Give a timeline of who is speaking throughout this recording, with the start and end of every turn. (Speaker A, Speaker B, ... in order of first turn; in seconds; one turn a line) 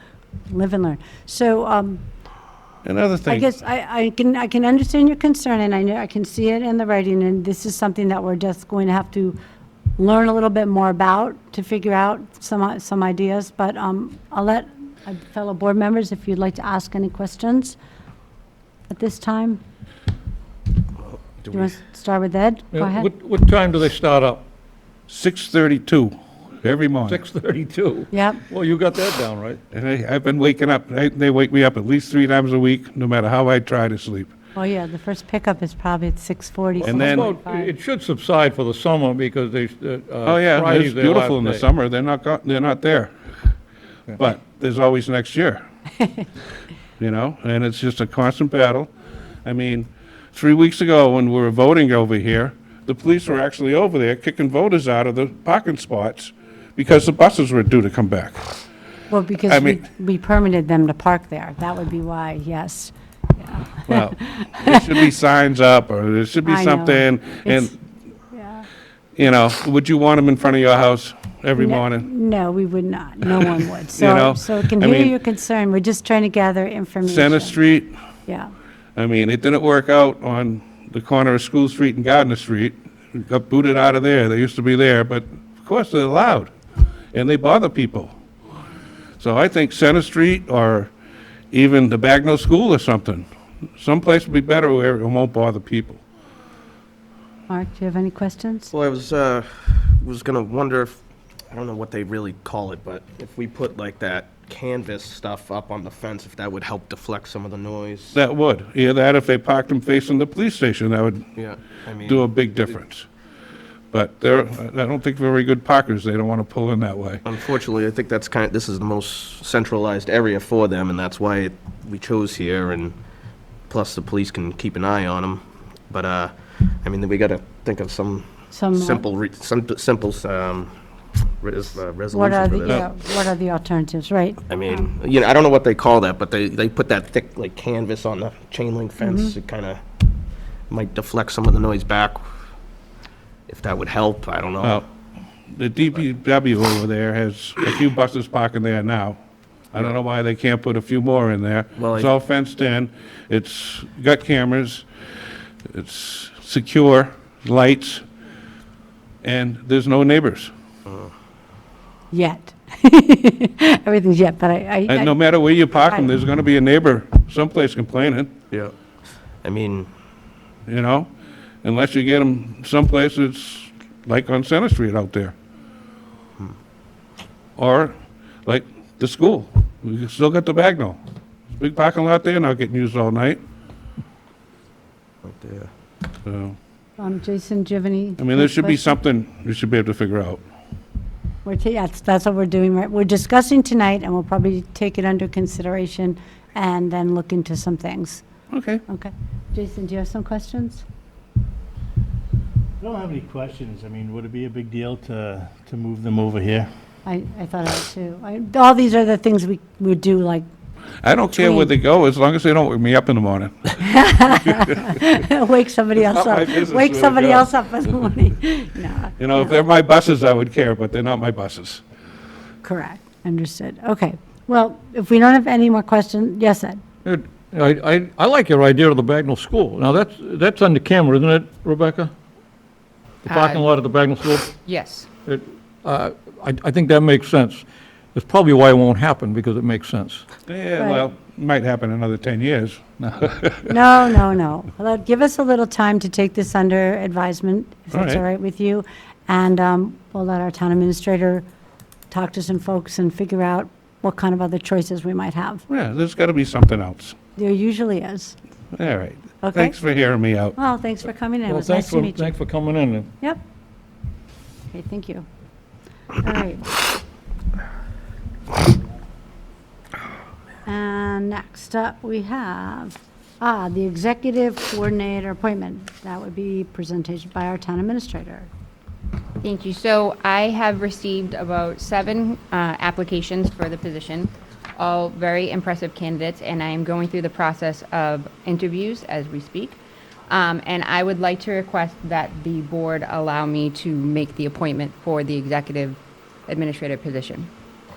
Speaker A: 0.5-2.0
Speaker B: 2.8-3.5
Speaker A: 3.3-9.4
Speaker A: 10.0-17.8
Speaker A: 18.9-19.6
Speaker C: 21.4-21.7
Speaker A: 21.5-23.1
Speaker D: 22.7-24.4
Speaker B: 25.1-27.2
Speaker D: 27.1-29.6
Speaker A: 28.1-28.4
Speaker B: 29.7-34.3
Speaker A: 34.5-37.7
Speaker D: 36.8-41.6
Speaker B: 36.8-37.3
Speaker B: 40.2-43.1
Speaker B: 44.2-45.6
Speaker B: 47.0-48.9
Speaker B: 49.4-58.4
Speaker A: 59.1-65.1
Speaker B: 59.5-59.8
Speaker B: 63.9-67.8
Speaker A: 66.4-67.7
Speaker A: 68.3-68.7
Speaker B: 69.2-72.1
Speaker A: 71.5-77.6
Speaker B: 74.0-75.1
Speaker B: 77.0-77.9
Speaker A: 78.3-78.5
Speaker B: 79.0-86.5
Speaker B: 87.1-88.1
Speaker B: 89.2-90.9
Speaker B: 91.5-93.3
Speaker B: 93.8-96.0
Speaker A: 97.5-98.7
Speaker C: 98.7-101.0
Speaker C: 101.5-108.2
Speaker B: 108.1-111.3
Speaker C: 111.4-112.3
Speaker B: 112.0-113.1
Speaker B: 113.9-117.2
Speaker C: 117.2-123.0
Speaker C: 123.7-130.7
Speaker A: 128.5-129.0
Speaker C: 131.4-132.9
Speaker A: 132.1-134.9
Speaker C: 134.5-139.8
Speaker A: 139.0-139.3
Speaker C: 140.7-142.2
Speaker C: 143.5-144.8
Speaker B: 145.5-149.2
Speaker B: 149.7-154.8
Speaker C: 151.8-152.1
Speaker B: 155.7-158.0
Speaker B: 159.2-160.5
Speaker A: 162.1-165.2
Speaker B: 164.9-168.3
Speaker C: 169.4-169.9
Speaker B: 170.7-171.1
Speaker B: 171.6-175.3
Speaker B: 177.6-181.0
Speaker B: 181.5-183.4
Speaker C: 185.2-185.7
Speaker B: 186.2-186.6
Speaker A: 187.0-188.8
Speaker B: 188.2-190.4
Speaker A: 191.4-198.2
Speaker B: 198.5-198.8
Speaker A: 198.9-200.8
Speaker E: 202.8-206.7
Speaker A: 207.0-210.5
Speaker B: 211.0-215.0
Speaker A: 211.3-211.7
Speaker A: 213.8-219.6
Speaker B: 216.0-217.5
Speaker B: 219.2-221.8
Speaker A: 222.6-226.8
Speaker D: 227.0-232.1
Speaker D: 233.2-234.5
Speaker F: 233.3-233.7
Speaker F: 234.6-235.1
Speaker D: 235.2-240.2
Speaker B: 240.5-243.7
Speaker A: 240.8-241.0
Speaker A: 243.7-251.4
Speaker B: 247.9-248.2
Speaker A: 252.1-255.6
Speaker B: 255.7-257.1
Speaker A: 257.4-258.4
Speaker B: 258.7-260.6
Speaker A: 259.4-259.8
Speaker A: 260.6-262.3
Speaker D: 261.5-263.1
Speaker A: 264.7-265.2
Speaker A: 266.2-266.7
Speaker A: 270.6-278.5
Speaker F: 279.4-289.8
Speaker F: 290.3-297.5